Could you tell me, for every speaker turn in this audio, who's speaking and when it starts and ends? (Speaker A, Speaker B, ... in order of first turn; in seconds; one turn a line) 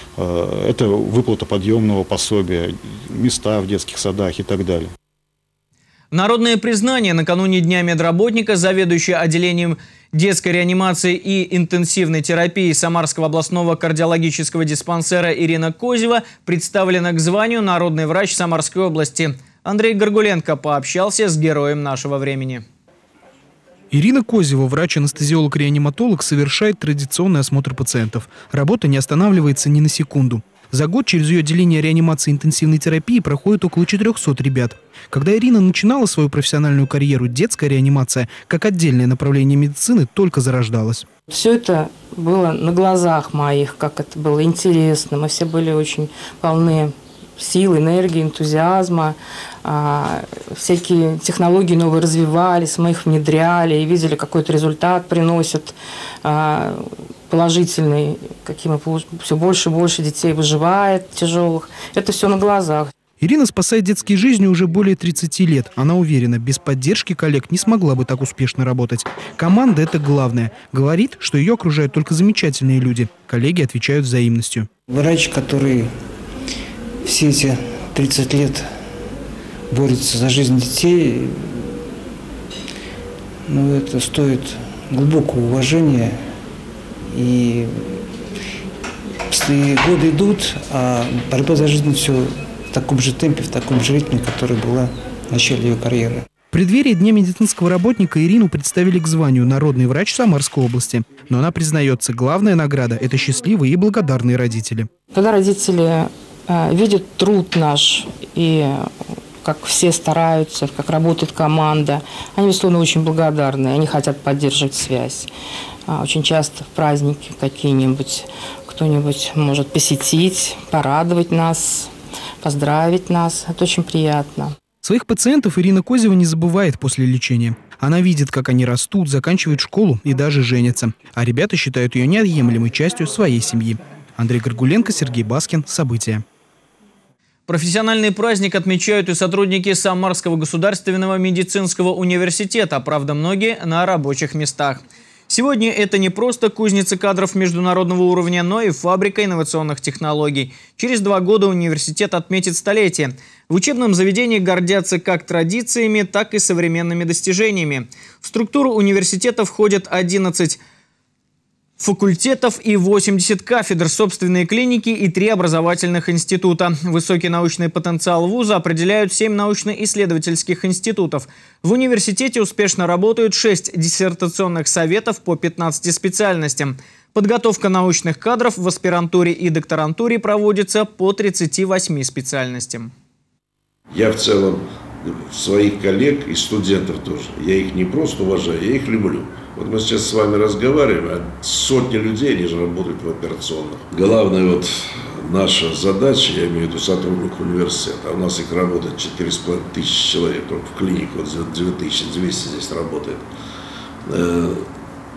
Speaker A: 0.2-4.9
Speaker B: 6.1-22.6
Speaker C: 23.9-41.0
Speaker D: 41.3-62.9
Speaker C: 63.2-74.7
Speaker E: 74.9-75.9
Speaker E: 77.0-78.7
Speaker E: 79.7-81.8
Speaker E: 83.5-86.2
Speaker E: 87.1-88.0
Speaker E: 89.3-96.2
Speaker C: 96.5-104.9
Speaker D: 105.1-108.9
Speaker D: 109.4-115.3
Speaker D: 115.9-121.9
Speaker D: 122.4-124.5
Speaker C: 124.8-136.2
Speaker B: 137.5-160.6
Speaker B: 161.8-182.9
Speaker F: 183.9-203.2
Speaker F: 204.1-204.6